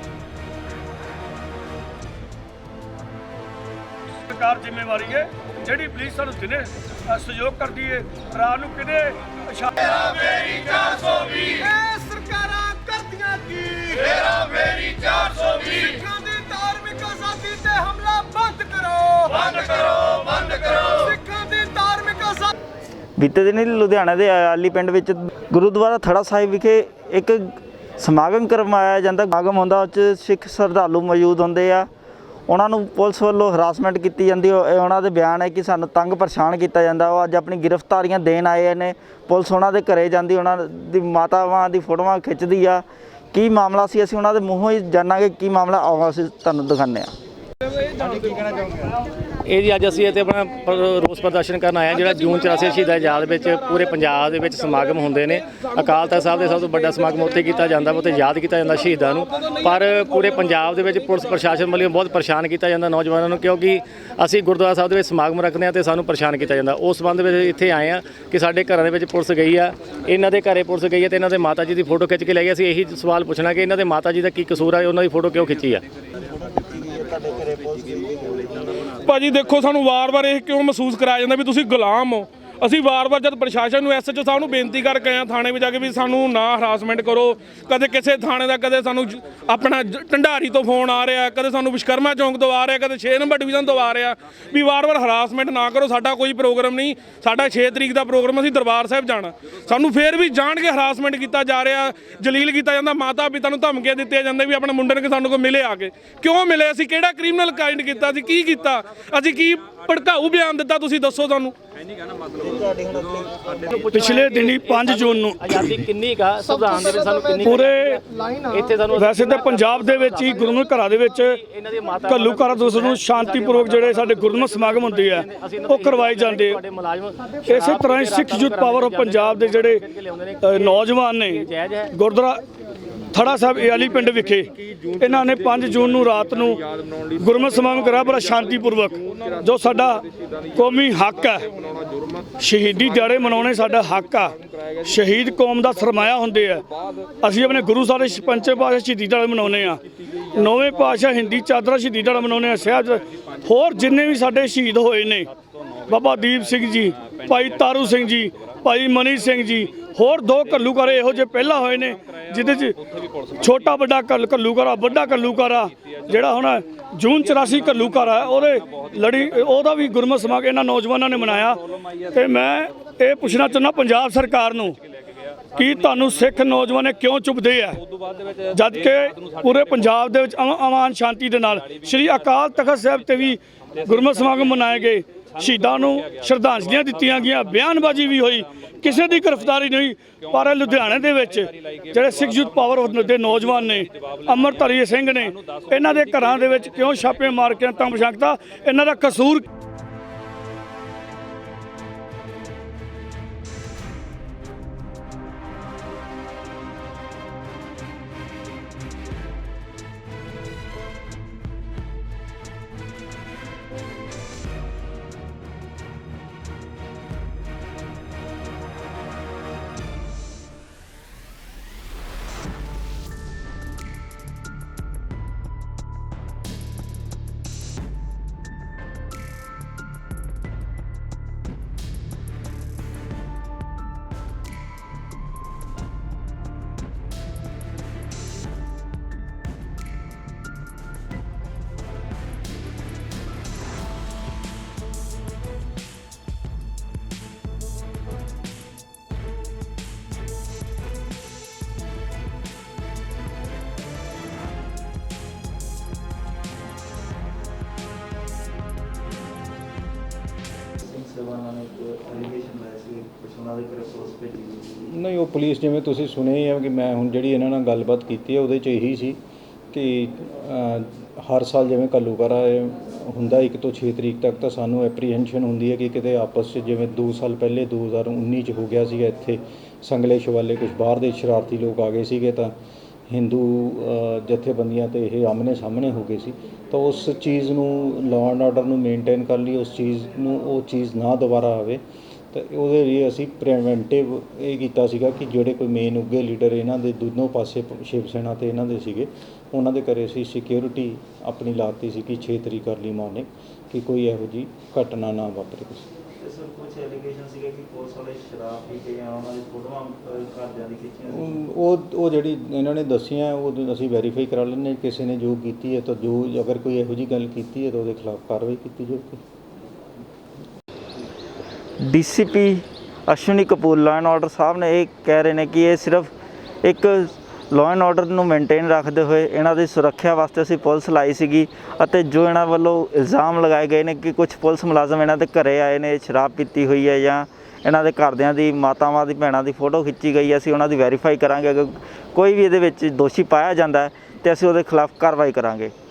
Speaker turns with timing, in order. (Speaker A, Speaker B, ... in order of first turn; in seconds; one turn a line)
Speaker A: 4.2-10.7
Speaker B: 10.2-22.5
Speaker C: 23.2-31.9
Speaker C: 32.5-47.1
Speaker D: 49.4-75.8
Speaker C: 76.2-78.9
Speaker E: 79.0-111.5
Speaker C: 112.4-113.6
Speaker D: 113.5-131.9
Speaker A: 113.9-115.7
Speaker A: 117.4-118.0
Speaker B: 118.2-118.5
Speaker A: 118.9-121.4
Speaker A: 122.0-126.6
Speaker A: 127.4-129.8
Speaker A: 130.4-132.4
Speaker A: 133.1-140.0
Speaker A: 140.5-141.4
Speaker A: 142.4-146.7
Speaker A: 147.2-149.8
Speaker A: 150.3-155.3
Speaker A: 155.8-162.8
Speaker A: 163.3-171.6
Speaker A: 172.1-174.8
Speaker A: 175.5-177.8
Speaker A: 178.4-199.4
Speaker C: 260.8-264.9
Speaker F: 264.9-269.2
Speaker F: 269.7-282.5
Speaker F: 283.1-291.8
Speaker F: 292.3-305.9
Speaker C: 306.2-311.4
Speaker F: 311.1-319.2
Speaker C: 321.8-326.1
Speaker C: 326.6-345.7